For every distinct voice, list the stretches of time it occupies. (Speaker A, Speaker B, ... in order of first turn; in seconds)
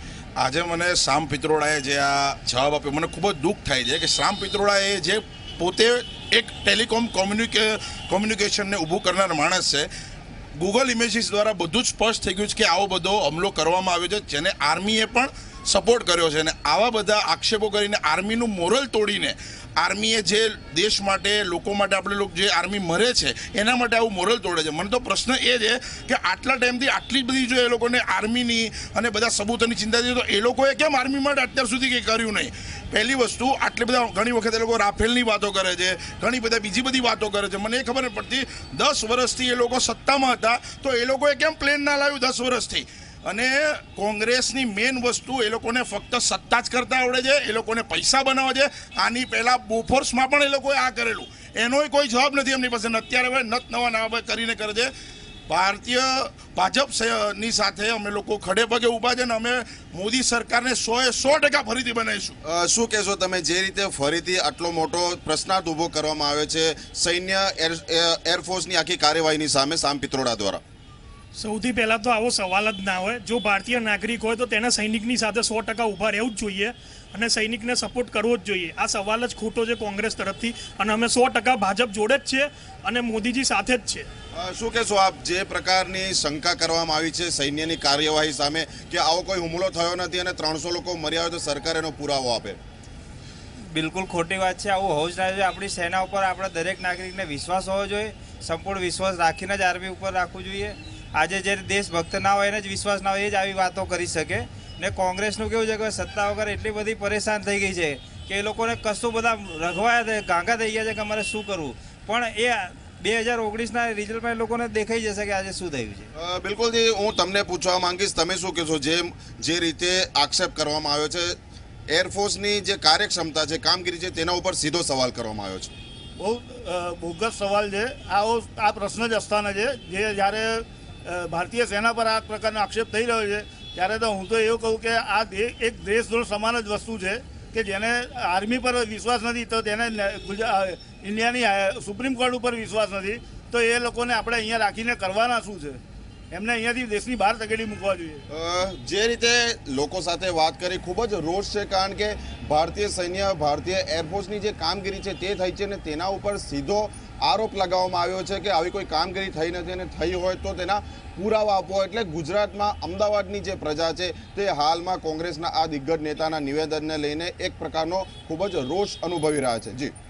Speaker A: 0.4-9.9, 10.6-54.9, 55.5-62.4
Speaker B: 62.4-70.6, 84.3-92.6, 116.1-121.4, 121.9-125.7, 148.3-169.9
Speaker C: 71.3-84.1
Speaker D: 93.7-116.1
Speaker E: 126.2-145.8, 146.3-148.2